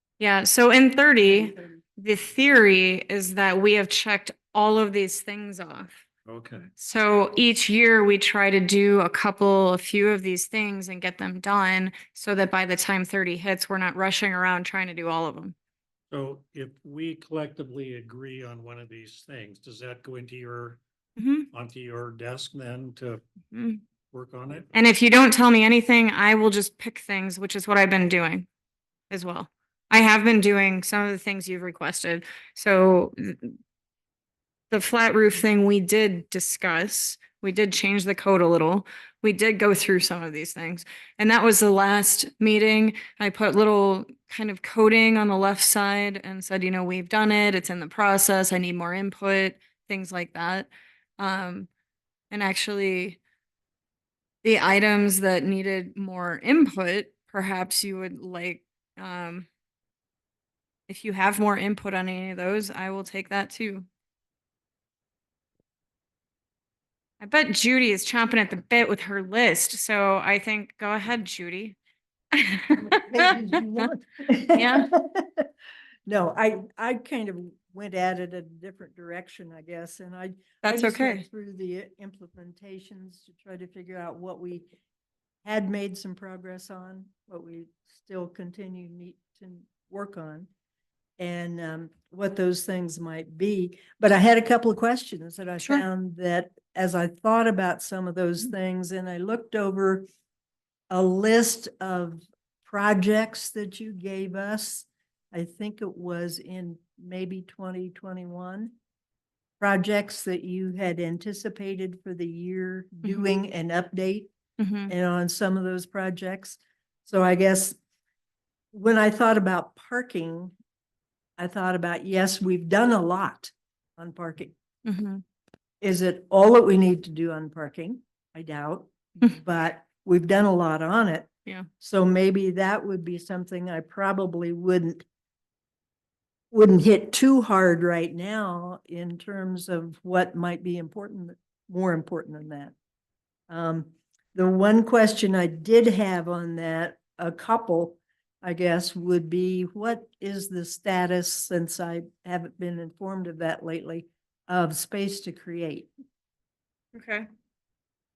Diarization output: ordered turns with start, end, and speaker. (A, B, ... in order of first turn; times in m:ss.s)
0:00.2-0:06.0 A
0:01.2-0:01.8 B
0:06.2-0:06.7 C
0:06.8-0:15.5 A
0:16.1-0:20.8 C
0:21.2-0:21.5 A
0:21.5-0:23.2 C
0:23.5-0:23.8 A
0:24.1-0:24.7 C
0:24.7-0:28.4 A
0:29.1-0:33.6 A
0:34.7-0:51.7 A
0:52.3-0:53.2 A
0:54.4-0:59.5 A
1:00.9-1:03.9 A
1:07.2-1:11.8 A
1:12.4-1:12.7 A
1:12.8-1:15.5 B
1:14.5-1:14.9 A
1:16.1-1:24.7 B
1:20.6-1:21.2 A
1:25.4-1:30.5 B
1:31.2-1:40.0 B
1:40.9-1:48.7 B
1:49.6-1:54.3 B
1:53.0-1:53.3 A
1:54.6-1:54.9 A
1:54.9-1:57.8 B
1:58.7-2:00.5 B
2:01.4-2:04.5 B
2:04.8-2:05.2 A
2:05.8-2:11.3 B
2:11.8-2:15.0 B
2:16.5-2:22.7 B
2:23.5-2:35.9 B
2:36.9-2:37.2 A